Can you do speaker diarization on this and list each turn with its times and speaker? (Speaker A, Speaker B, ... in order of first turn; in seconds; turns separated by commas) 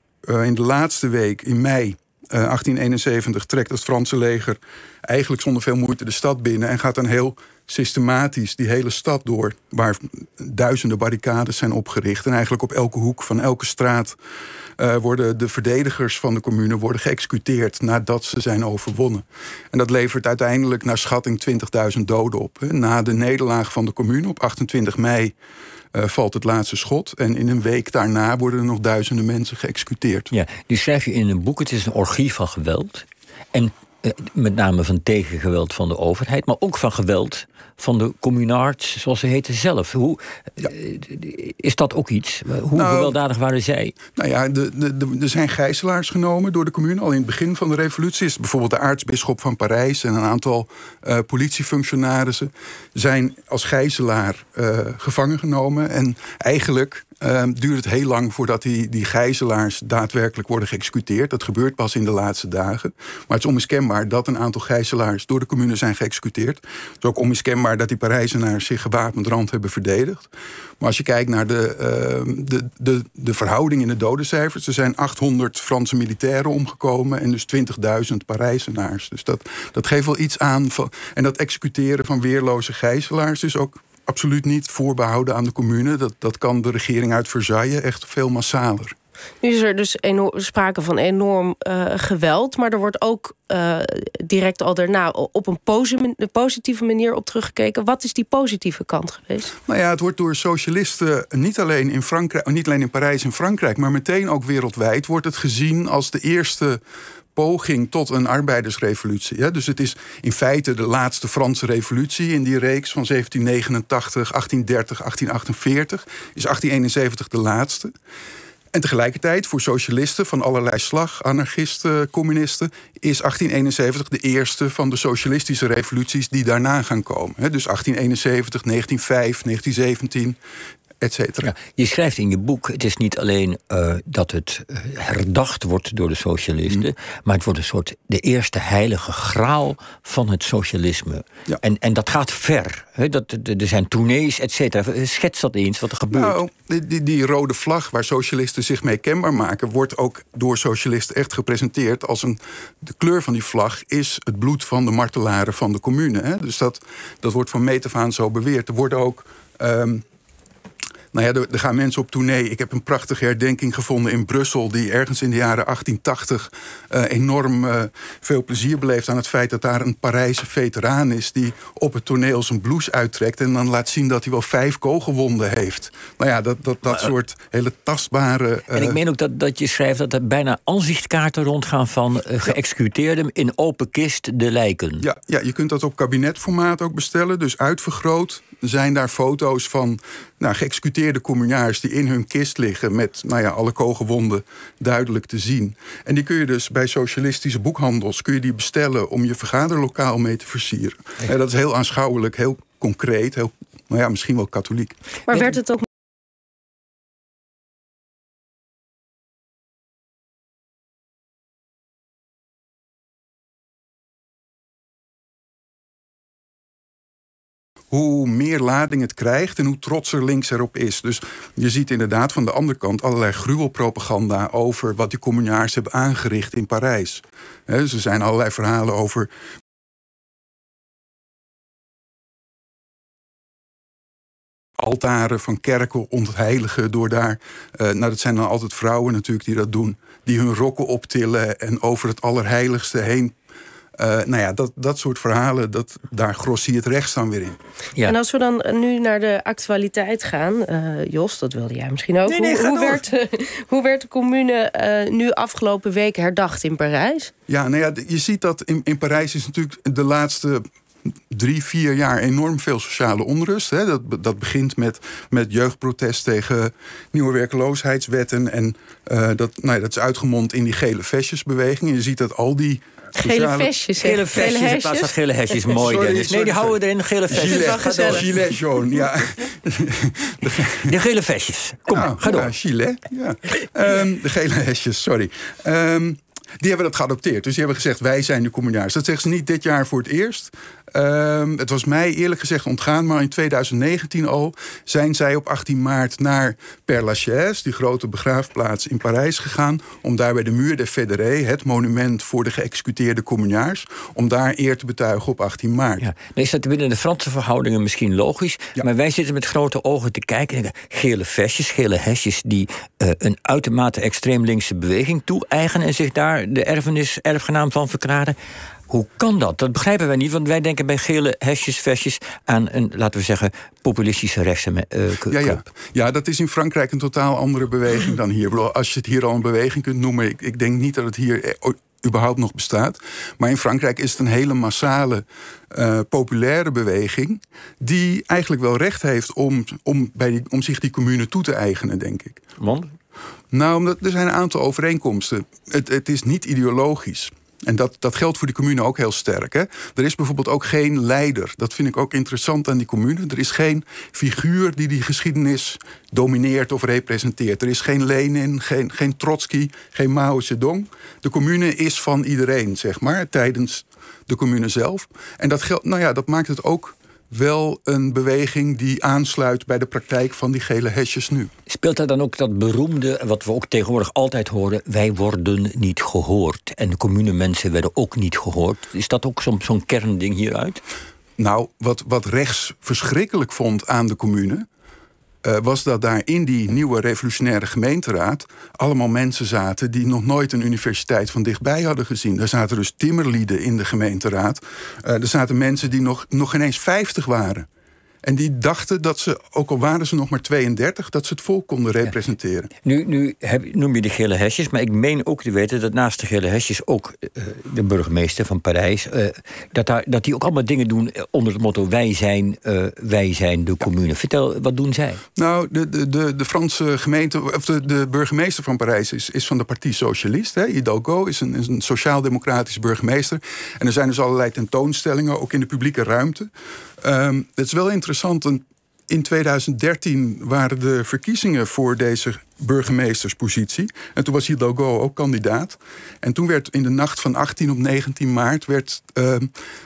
Speaker A: 0.2-14.2, Speaker A: 14.8-25.3, Speaker A: 25.9-30.3, Speaker B: 30.3-44.0, Speaker A: 42.7-43.2, Speaker A: 44.1-88.9, Speaker C: 89.4-99.5, Speaker A: 99.7-106.8, Speaker A: 107.3-117.9, Speaker A: 118.7-130.4, Speaker A: 131.0-131.5, Speaker B: 131.4-146.4, Speaker A: 146.1-160.0, Speaker A: 161.1-179.0, Speaker B: 178.7-185.0, Speaker A: 185.0-205.0, Speaker C: 205.3-205.9, Speaker A: 217.9-229.3, Speaker A: 234.8-243.3, Speaker A: 244.0-247.6, Speaker C: 248.0-257.3, Speaker B: 252.3-253.0, Speaker A: 257.5-260.6, Speaker A: 261.3-273.7, Speaker C: 273.1-275.1, Speaker B: 274.0-278.3, Speaker A: 275.7-280.9, Speaker C: 277.3-278.2, Speaker B: 280.8-282.5, Speaker A: 281.9-306.1, Speaker B: 306.0-318.4, Speaker B: 318.9-325.6, Speaker A: 325.3-342.4, Speaker B: 342.6-342.9, Speaker A: 343.5-371.5, Speaker B: 371.7-380.8, Speaker A: 381.4-384.6, Speaker A: 385.4-397.6, Speaker A: 398.2-402.7, Speaker B: 402.8-415.2, Speaker A: 415.4-426.5, Speaker A: 427.0-439.5